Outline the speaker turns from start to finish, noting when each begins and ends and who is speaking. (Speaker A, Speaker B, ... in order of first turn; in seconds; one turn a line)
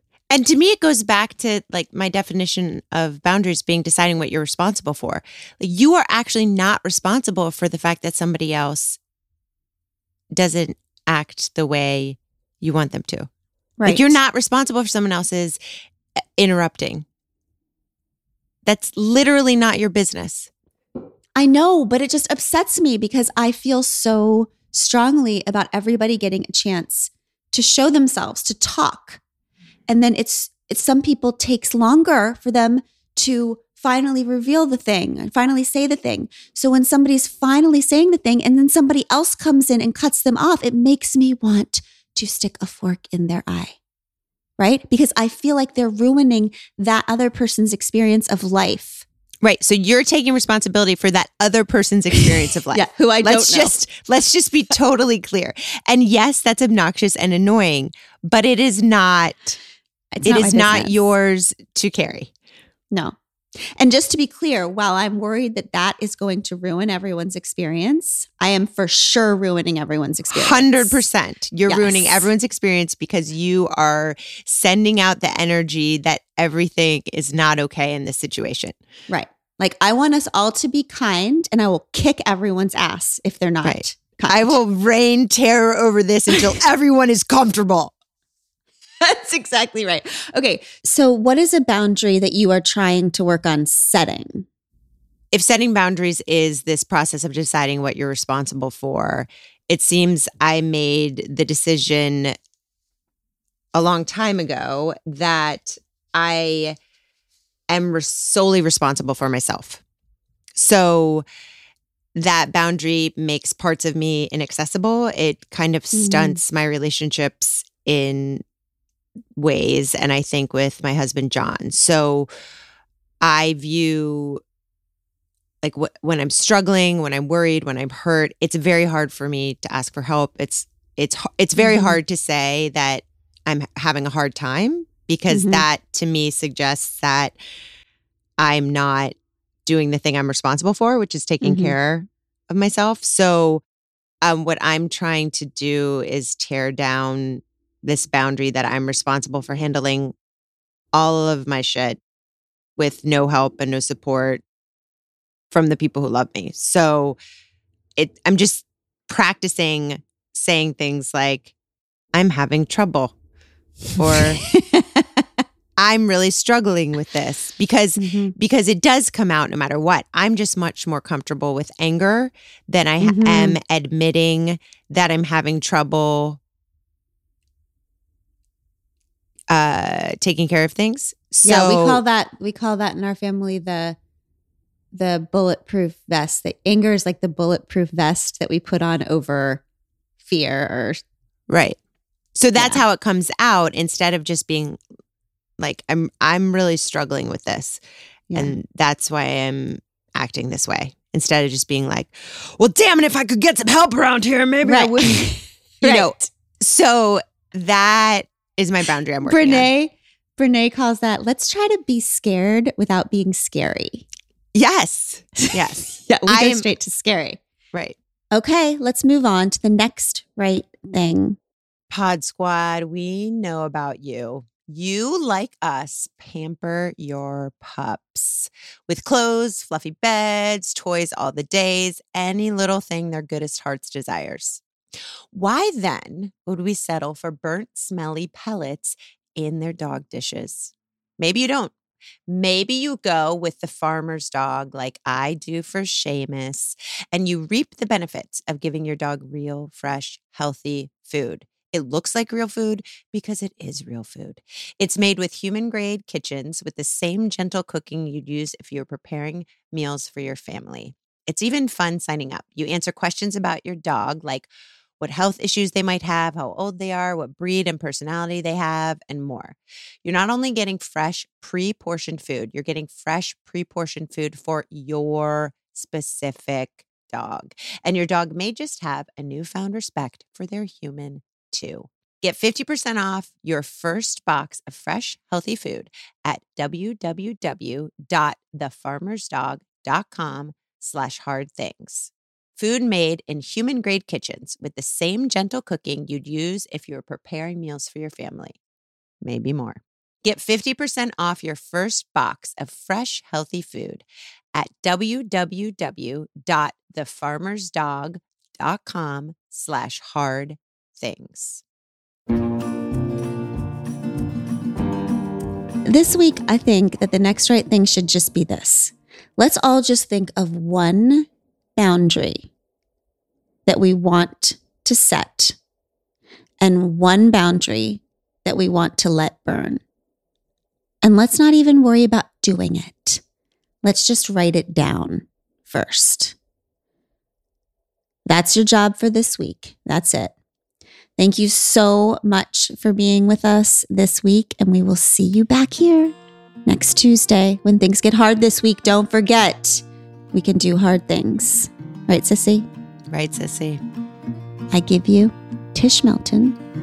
Speaker A: 0.3-9.0
Speaker A: 10.3-13.3
Speaker B: 13.8-14.2
Speaker A: 13.9-15.6
Speaker A: 16.4-17.0
Speaker A: 18.6-20.5
Speaker B: 21.4-29.2
Speaker B: 29.9-43.8
Speaker B: 44.6-49.0
Speaker A: 49.4-59.6
Speaker B: 52.7-53.7
Speaker B: 60.1-60.9
Speaker A: 60.2-62.3
Speaker B: 63.8-71.0
Speaker A: 70.3-78.8
Speaker B: 71.7-72.3
Speaker B: 79.1-84.6
Speaker A: 83.6-87.9
Speaker B: 86.3-86.6
Speaker B: 89.0-94.5
Speaker A: 95.3-102.3
Speaker A: 103.7-106.8
Speaker A: 107.7-109.8
Speaker A: 110.5-111.2
Speaker A: 112.1-118.4
Speaker B: 115.9-116.4
Speaker A: 119.4-122.3
Speaker A: 123.2-124.4
Speaker A: 125.6-137.3
Speaker B: 131.6-132.0
Speaker B: 135.3-135.6
Speaker A: 138.4-139.1
Speaker A: 139.7-143.6
Speaker B: 141.4-141.7
Speaker A: 144.2-150.1
Speaker A: 150.9-152.0
Speaker A: 152.8-154.4
Speaker A: 155.5-157.2
Speaker A: 158.0-161.5
Speaker A: 162.1-163.1
Speaker A: 163.9-164.4
Speaker B: 164.0-165.4
Speaker A: 165.8-176.4
Speaker B: 168.0-168.3
Speaker B: 173.0-173.6
Speaker A: 179.5-182.0
Speaker B: 181.4-184.0
Speaker B: 184.9-189.6
Speaker B: 190.2-191.0
Speaker A: 191.5-191.8
Speaker A: 192.3-194.8
Speaker B: 192.6-192.8
Speaker A: 195.6-197.8
Speaker B: 198.3-198.6
Speaker A: 198.3-205.3
Speaker B: 204.6-206.1
Speaker A: 205.8-209.7
Speaker B: 209.2-214.1
Speaker A: 214.5-216.7
Speaker B: 216.0-217.4
Speaker B: 218.3-221.4
Speaker A: 221.9-234.6
Speaker A: 235.3-241.7
Speaker A: 242.3-264.5
Speaker A: 265.0-298.6
Speaker A: 299.2-304.0
Speaker A: 304.5-311.6
Speaker B: 315.8-322.5
Speaker B: 323.6-325.6
Speaker B: 326.6-329.8
Speaker B: 331.0-333.2
Speaker B: 333.8-336.4
Speaker B: 338.2-340.3
Speaker B: 341.2-352.7
Speaker A: 353.1-353.8
Speaker B: 354.7-356.6